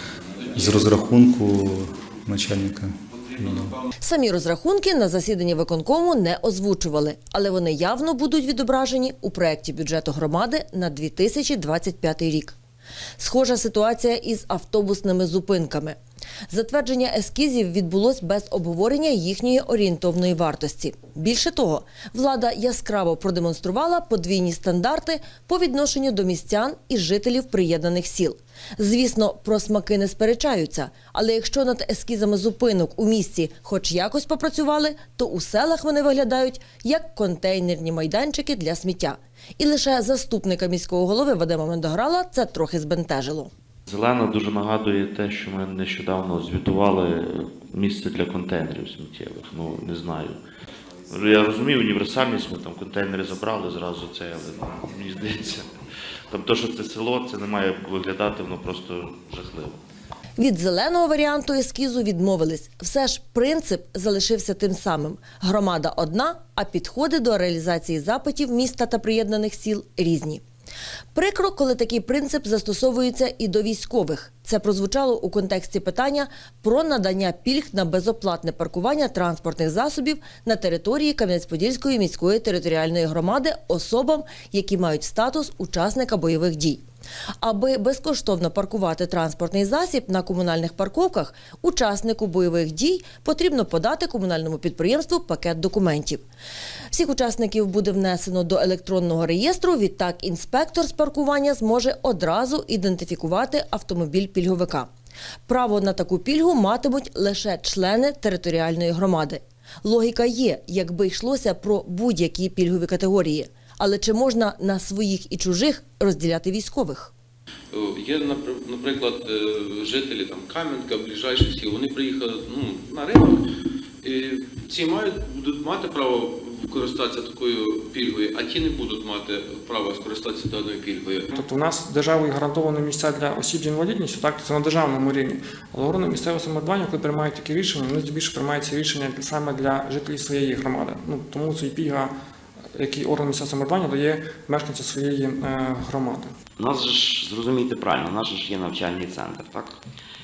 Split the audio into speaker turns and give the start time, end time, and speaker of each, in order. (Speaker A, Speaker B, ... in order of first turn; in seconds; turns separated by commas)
Speaker A: 0.5-3.7, Speaker B: 4.0-12.6, Speaker B: 13.2-16.0, Speaker B: 16.5-43.5, Speaker C: 43.9-50.4, Speaker C: 51.1-55.7, Speaker C: 56.3-59.8, Speaker B: 60.4-70.4, Speaker B: 71.1-86.8, Speaker B: 87.4-96.2, Speaker B: 96.9-104.9, Speaker B: 105.5-117.1, Speaker D: 117.7-123.4, Speaker D: 124.0-131.3, Speaker E: 131.3-142.1, Speaker E: 142.8-146.3, Speaker F: 146.6-149.8